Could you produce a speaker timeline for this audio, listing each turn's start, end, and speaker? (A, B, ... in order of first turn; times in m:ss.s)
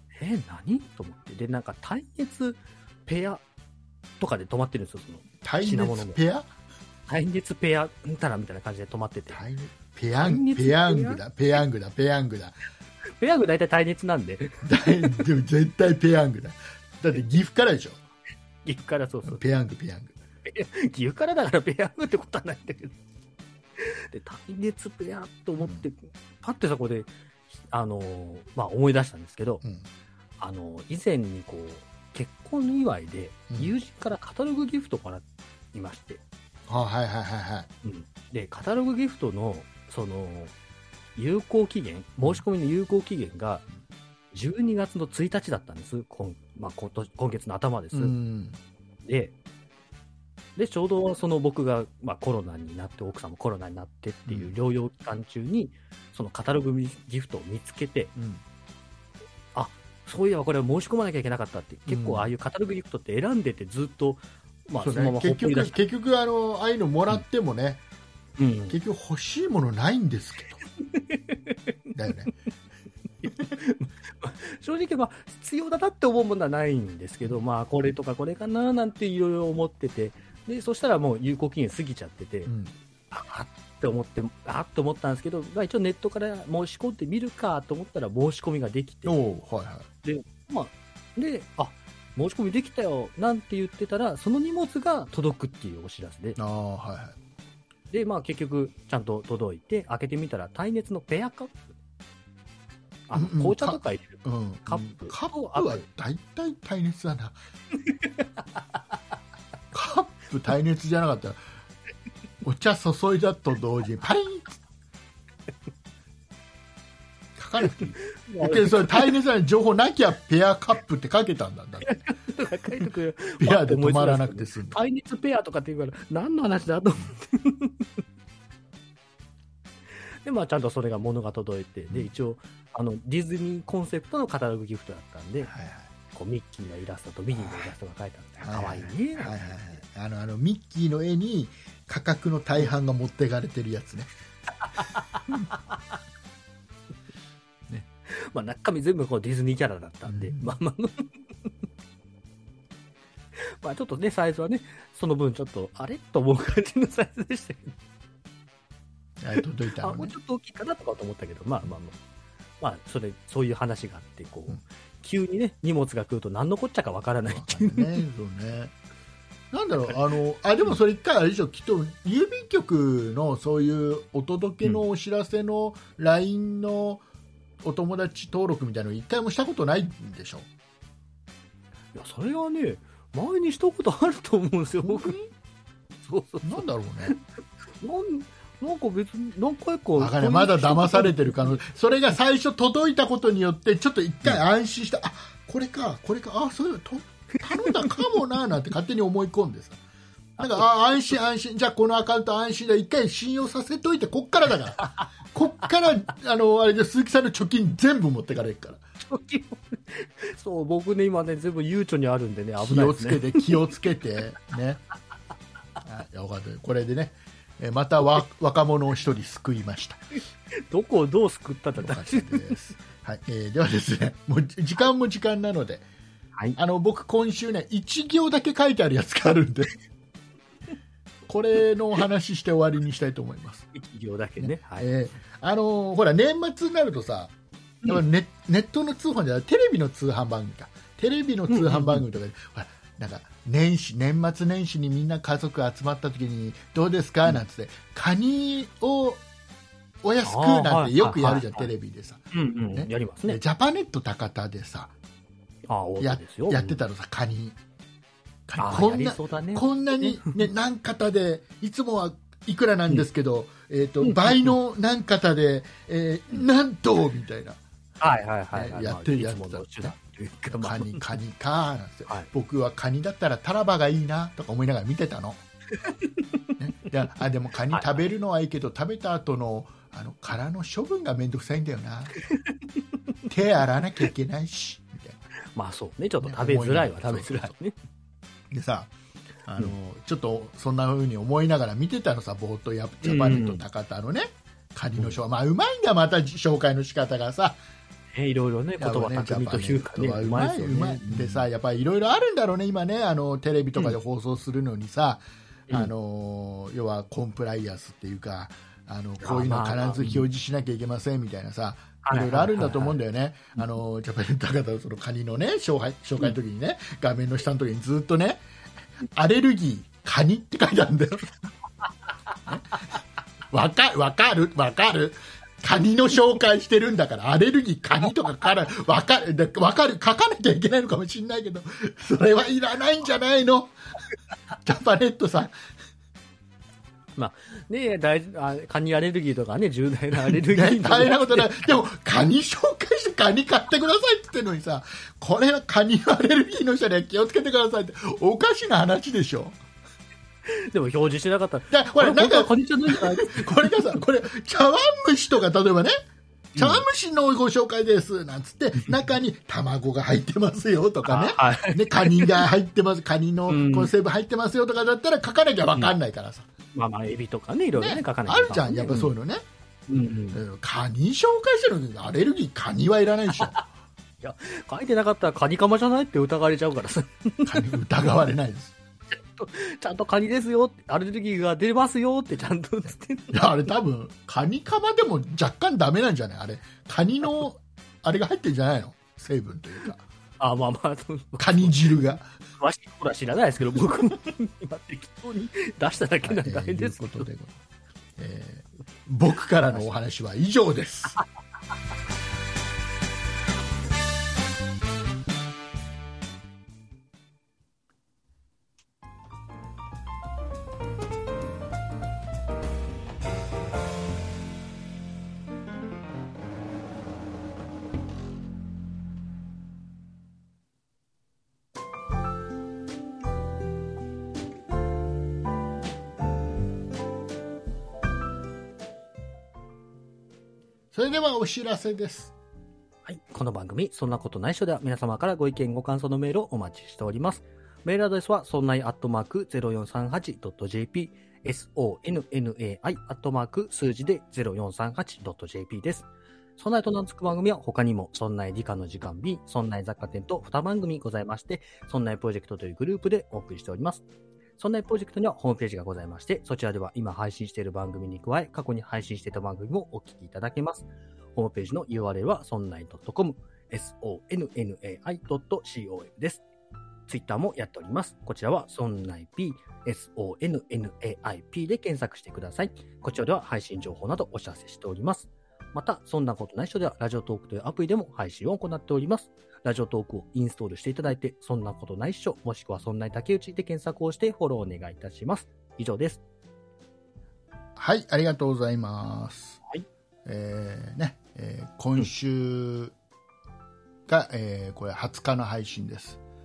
0:00.2-0:03.4 A
0:04.2-0:06.2 A
0:05.4-0:06.5 B
0:07.1-0:09.4 A
0:09.3-0:12.6 B
0:10.2-0:11.2 A
0:13.2-0:15.2 A
0:14.6-0:18.0 B
0:18.6-0:19.4 A
0:19.2-0:20.1 B
0:20.4-0:22.9 A
0:23.8-0:27.1 A
0:25.6-0:25.8 B
0:27.7-0:29.6 A
0:30.4-0:36.2 A
0:36.7-0:37.7 B
0:37.8-0:40.5 A
0:41.2-0:43.6 A
0:44.3-0:48.2 A
0:47.9-0:48.6 B
0:49.0-0:49.3 A
0:50.6-0:58.1 A
0:54.3-0:54.5 B
0:58.2-0:58.4 B
0:59.5-1:05.8 A
1:01.9-1:02.3 B
1:04.8-1:07.8 B
1:08.4-1:08.8 A
1:08.7-1:10.6 B
1:10.9-1:11.7 A
1:11.9-1:12.3 B
1:13.2-1:22.5 A
1:22.4-1:22.7 B
1:23.1-1:29.2 A
1:29.0-1:29.9 B
1:30.0-1:36.4 A
1:36.4-1:37.2 B
1:37.9-1:41.7 A
1:43.1-1:45.8 A
1:43.1-1:47.4 B
1:49.7-1:51.4 B
1:52.4-1:54.6 B
1:57.4-2:01.9 B
1:58.0-1:59.1 A
2:01.8-2:07.8 A
2:03.4-2:04.8 B
2:10.2-2:15.5 A
2:15.5-2:15.9 B
2:16.1-2:19.5 A
2:17.4-2:17.7 B
2:18.4-2:24.1 B
2:24.7-2:25.6 A
2:28.1-2:31.1 A
2:30.1-2:30.5 B
2:33.6-2:37.8 A
2:39.2-2:40.1 B
2:39.8-2:42.0 A
2:42.6-2:48.0 A
2:47.3-2:48.7 B
2:49.5-2:57.0 B
2:57.6-3:00.5 B
3:01.9-3:05.2 A
3:04.8-3:05.3 B
3:06.0-3:07.2 A
3:06.4-3:07.1 B
3:07.8-3:11.6 A
3:10.0-3:19.8 B
3:20.4-3:28.8 B
3:29.0-3:33.5 A
3:32.6-3:34.8 B
3:35.8-3:40.0 B
3:40.7-3:42.6 A
3:41.8-3:45.8 B
3:46.6-3:49.7 B
3:51.3-3:53.7 B
3:53.7-3:54.9 A
3:54.4-4:09.2 B
4:01.5-4:02.0 A
4:10.0-4:14.9 B
4:10.2-4:11.7 A
4:12.3-4:13.4 A
4:15.7-4:16.8 A
4:16.0-4:17.6 B
4:18.5-4:27.6 B
4:18.6-4:20.4 A
4:24.0-4:24.5 A
4:28.0-4:31.1 A
4:28.5-4:30.0 B
4:30.5-4:35.4 B
4:35.8-4:36.5 A
4:36.6-4:42.1 B
4:43.2-4:45.2 B
4:45.5-4:47.8 A
4:46.2-4:47.5 B
4:48.5-4:48.9 B
4:49.4-4:57.6 B
4:53.0-4:53.6 A
4:58.1-5:01.4 A
4:58.8-5:18.4 B
5:09.2-5:10.2 A
5:12.0-5:13.0 A
5:19.0-5:21.3 B
5:22.5-5:33.7 B
5:34.6-5:35.6 B
5:37.2-5:41.7 A
5:40.3-5:49.6 B
5:50.4-5:53.7 A
5:51.7-5:55.9 B
5:56.5-6:06.5 B
5:56.5-5:56.8 A
6:01.1-6:02.5 A
6:03.5-6:03.9 A
6:06.7-6:09.1 A
6:07.8-6:09.4 B
6:09.9-6:10.4 A
6:10.3-6:13.6 B
6:14.2-6:17.7 A
6:17.4-6:18.7 B
6:19.1-6:23.4 A
6:23.3-6:30.0 B
6:30.4-6:32.0 A
6:31.4-6:32.3 B
6:32.6-6:37.3 A
6:36.2-6:37.6 B
6:38.2-6:41.2 B
7:10.9-7:12.3 B
7:13.0-7:26.1 A
7:26.6-7:34.0 A
7:34.6-7:46.4 A
7:47.1-8:06.2 A
8:07.8-8:09.6 B
8:10.2-8:12.9 B
8:14.1-8:16.2 B